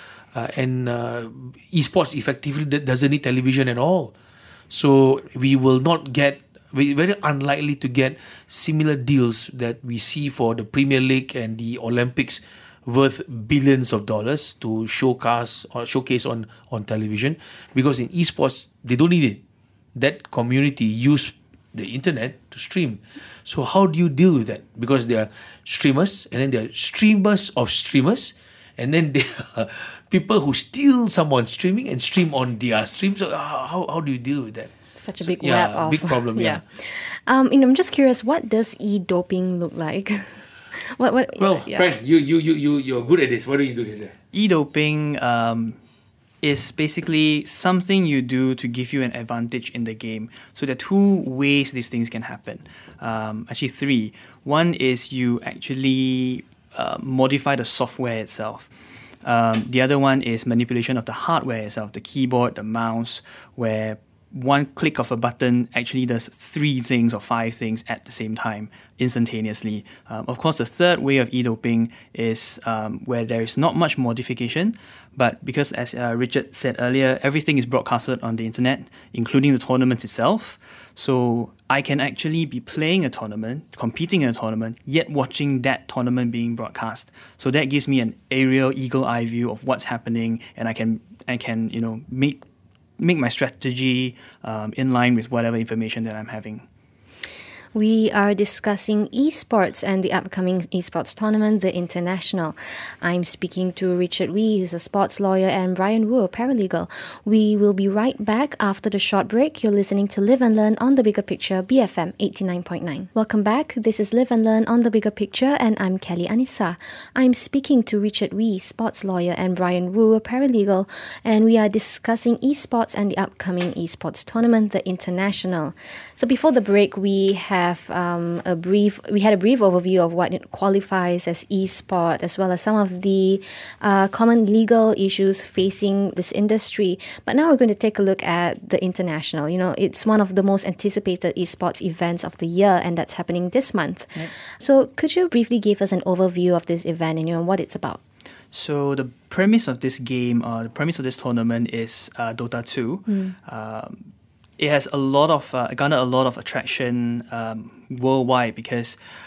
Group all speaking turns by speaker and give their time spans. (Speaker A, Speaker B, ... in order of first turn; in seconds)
Speaker A: 0.3-4.1, 4.7-19.4, 19.9-36.6, 41.4-44.1
Speaker B: 35.0-41.9, 97.7-148.0, 153.1-153.3
Speaker C: 44.3-45.8, 46.4-58.7, 59.2-92.4, 93.0-96.7, 148.5-159.0